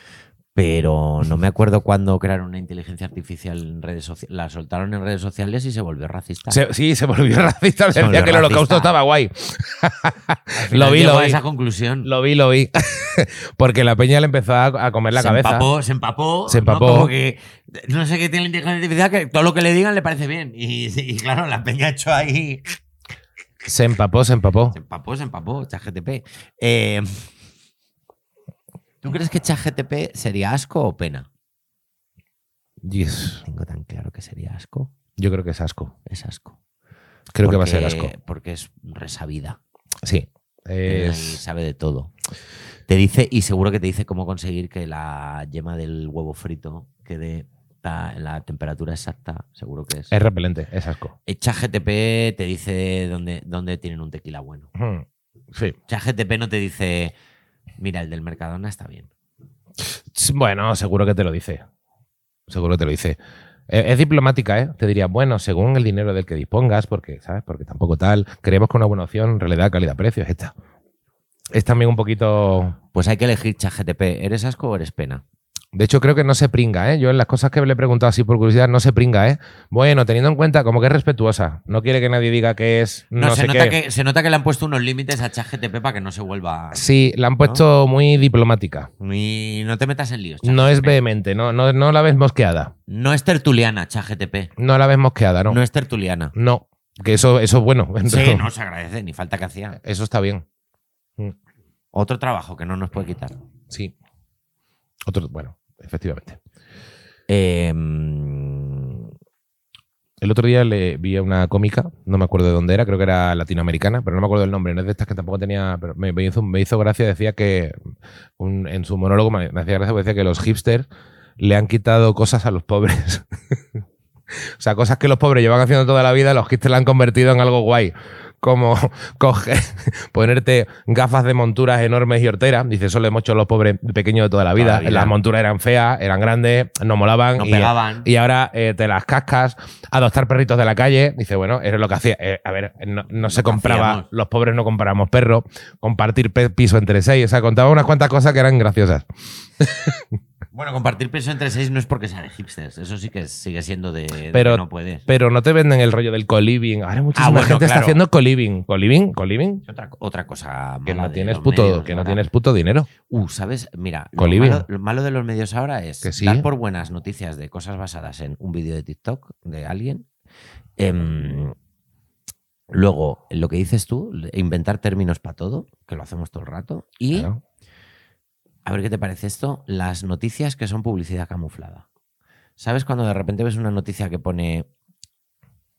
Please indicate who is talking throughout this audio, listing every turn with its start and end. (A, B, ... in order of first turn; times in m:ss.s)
0:00.6-0:06.6 A
0:06.5-0:11.4 B
0:08.0-0:08.9 A
0:10.6-0:12.1 A
0:12.0-0:15.7 B
0:15.1-0:22.8 A
0:16.5-0:17.1 B
0:23.7-0:24.8 B
0:24.7-0:27.3 A
0:29.0-0:31.3 A
0:32.8-0:33.4 B
0:33.4-0:34.9 A
0:35.2-0:36.0 B
0:36.1-0:36.6 A
0:37.3-0:38.1 B
0:37.4-0:39.6 A
0:40.0-0:41.4 B
0:40.9-0:42.1 A
0:42.9-0:50.1 A
0:50.1-0:51.2 B
0:51.3-0:54.7 A
0:54.8-0:55.8 B
0:55.9-0:57.1 A
0:57.8-0:59.1 A
0:59.8-1:01.6 B
1:02.5-1:03.2 B
1:03.7-1:10.5 B
1:11.5-1:12.8 B
1:12.9-1:15.2 A
1:15.7-1:23.8 B
1:23.2-1:26.8 A
1:26.7-1:28.9 B
1:29.0-1:31.0 A
1:30.4-1:32.7 B
1:32.9-1:34.5 A
1:34.6-1:35.6 B
1:35.5-1:36.3 A
1:36.3-1:38.5 B
1:38.0-1:39.8 A
1:39.8-1:40.4 B
1:41.9-1:43.4 A
1:45.1-1:46.4 B
1:47.3-1:49.1 A
1:50.2-1:57.8 B
1:58.4-2:00.9 B
2:01.4-2:03.3 B
2:04.6-2:29.1 B
2:14.6-2:15.2 A
2:17.4-2:18.1 A
2:23.2-2:24.1 A
2:29.6-2:30.0 B
2:30.5-2:35.0 A
2:34.3-2:39.6 B
2:37.2-2:38.0 A
2:39.7-2:42.2 A
2:40.9-2:42.9 B
2:43.1-2:50.1 A
2:44.2-2:44.6 B
2:46.0-2:46.5 B
2:50.8-2:51.5 A
2:52.7-2:57.3 A
2:57.1-2:57.4 B
2:58.6-3:01.8 A
3:02.6-3:04.7 A